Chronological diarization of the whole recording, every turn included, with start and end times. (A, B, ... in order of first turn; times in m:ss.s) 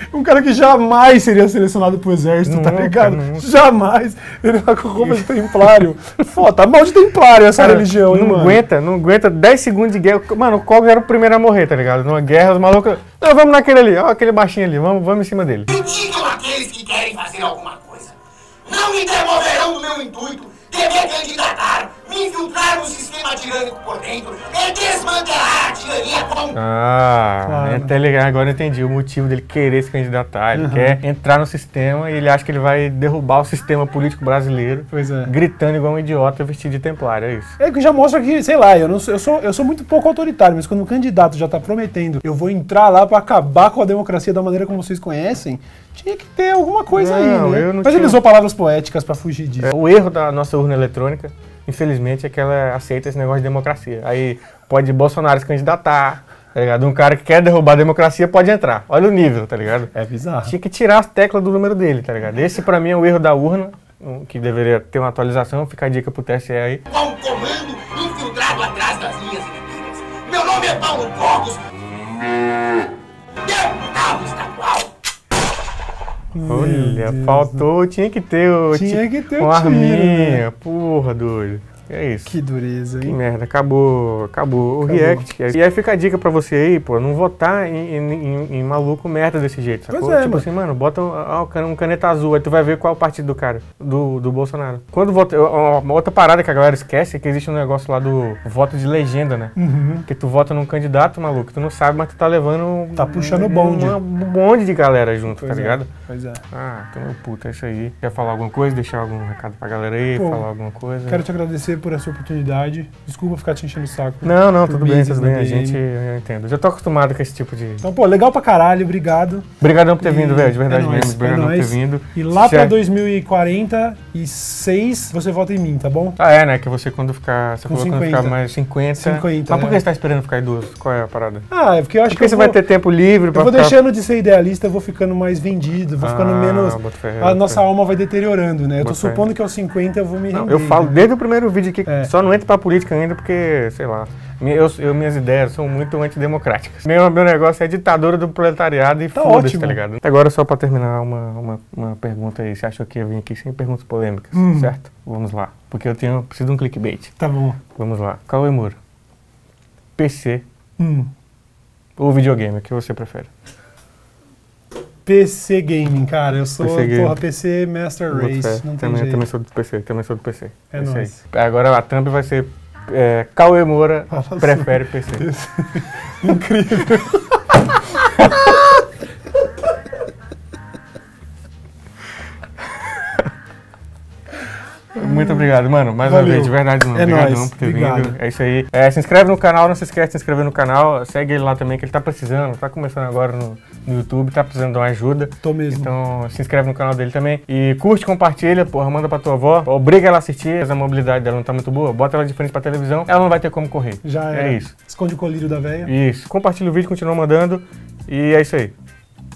0:00.1-0:08.6 A
0:02.4-0:03.5 B
0:05.0-0:05.3 B
0:07.6-0:15.7 B
0:15.7-0:26.6 C
0:26.5-0:37.6 B
0:27.4-0:27.9 A
0:30.5-0:31.0 A
0:34.9-0:35.3 A
0:37.6-0:49.7 A
0:46.9-0:48.2 B
0:49.6-0:59.9 B
0:59.9-1:00.5 A
1:00.4-1:06.8 B
1:06.9-1:11.6 C
1:13.4-1:14.9 C
1:16.3-1:17.7 A
1:16.5-1:22.3 B
1:18.7-1:20.4 A
1:22.3-1:23.2 A
1:23.0-1:45.9 B
1:24.8-1:25.2 A
1:29.9-1:30.5 A
1:39.6-1:40.1 A
1:43.0-1:44.0 A
1:45.3-1:46.4 A
1:46.5-1:51.2 B
1:50.1-1:50.5 A
1:51.1-1:55.8 A
1:54.2-1:57.8 B
1:57.8-1:59.5 A
1:59.6-2:02.8 B
2:00.0-2:06.2 A
2:06.2-2:11.5 B
2:07.7-2:08.4 A
2:09.0-2:09.8 A
2:11.5-2:12.6 A
2:12.1-2:13.8 B
2:13.3-2:21.1 A
2:16.0-2:17.6 B
2:18.8-2:19.3 B
2:20.3-2:37.1 B
2:21.9-2:22.1 A
2:29.1-2:29.8 A
2:34.3-2:34.7 A
2:37.2-2:37.6 A
2:37.8-2:38.8 B
2:40.0-2:40.4 B
2:40.8-2:41.1 A
2:42.0-2:43.3 B
2:45.0-2:49.3 A
2:46.6-2:47.2 B
2:48.1-2:55.2 B
2:50.7-2:51.2 A
2:54.1-2:57.2 A
3:05.0-3:05.5 A
3:05.0-3:24.7 B
3:06.0-3:08.2 A
3:15.4-3:15.9 A
3:24.0-3:25.9 A
3:25.8-3:28.7 B